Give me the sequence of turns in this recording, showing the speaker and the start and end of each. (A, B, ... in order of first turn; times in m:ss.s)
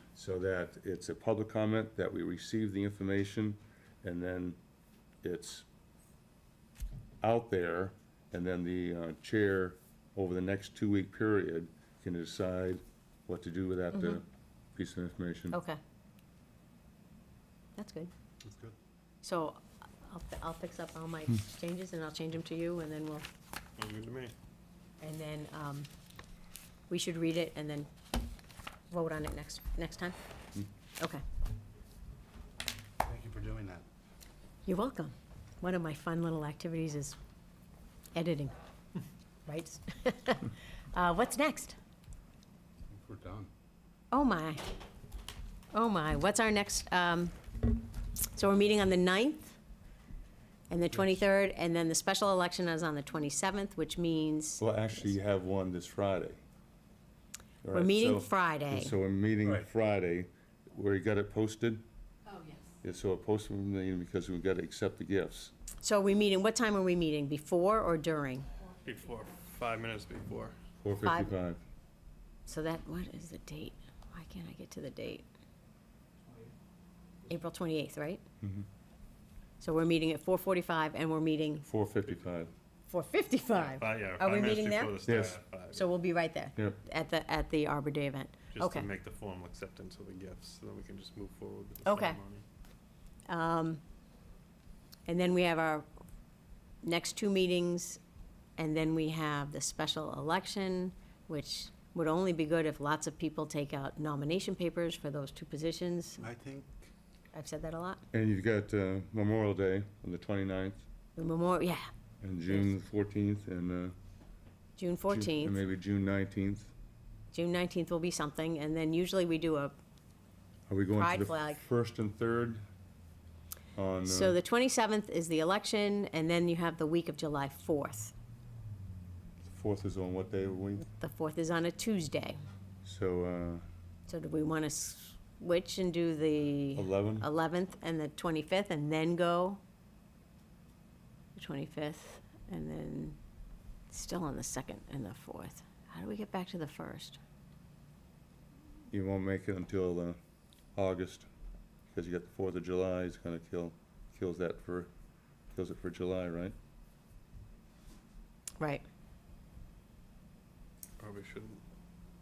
0:00.2-0:04.6 A
0:05.2-0:05.7 A
0:07.2-0:15.6 A
0:15.5-0:15.8 B
0:17.8-0:18.1 B
0:18.4-0:18.8 C
0:19.2-0:23.3 B
0:23.8-0:24.3 D
0:25.0-0:25.9 B
0:26.9-0:27.9 B
0:28.9-0:30.2 B
0:33.0-0:33.8 C
0:34.7-0:37.2 B
0:38.2-0:38.6 B
0:39.5-0:41.8 B
0:42.9-0:43.5 C
0:44.1-0:44.6 B
0:45.7-0:47.8 B
0:48.3-0:49.6 B
0:50.7-0:55.1 B
0:54.6-0:56.4 A
0:57.6-1:01.8 A
0:57.7-0:58.9 B
1:02.8-1:05.5 A
1:05.8-1:08.5 B
1:08.8-1:10.6 D
1:10.8-1:11.6 A
1:11.0-1:11.3 B
1:12.5-1:15.2 B
1:17.3-1:18.2 B
1:18.4-1:18.7 A
1:19.6-1:21.7 B
1:21.7-1:22.5 A
1:22.9-1:25.0 B
1:23.6-1:25.8 D
1:25.1-1:25.4 A
1:25.7-1:28.9 B
1:28.5-1:32.4 D
1:31.8-1:32.2 B
1:33.3-1:33.8 B
1:35.1-1:35.9 B
1:36.8-1:38.0 B
1:38.6-1:46.2 B
1:46.2-1:46.9 C
1:47.3-1:48.0 B
1:48.1-1:50.8 A
1:51.2-1:51.9 B
1:52.2-1:54.0 A
1:54.8-1:55.6 B
1:55.1-1:56.7 A
1:57.3-1:59.8 B
2:00.7-2:02.6 A
2:00.9-2:01.6 B
2:03.8-2:04.4 A
2:04.1-2:08.1 B
2:09.4-2:10.9 A
2:10.9-2:12.4 B
2:12.8-2:13.6 A
2:14.1-2:19.6 B
2:16.8-2:17.3 A
2:21.4-2:23.2 B
2:23.9-2:27.2 B
2:28.9-2:30.2 A
2:30.8-2:31.3 A
2:31.9-2:34.9 A
2:35.5-2:36.6 A
2:38.6-2:38.8 B
2:41.0-2:41.6 D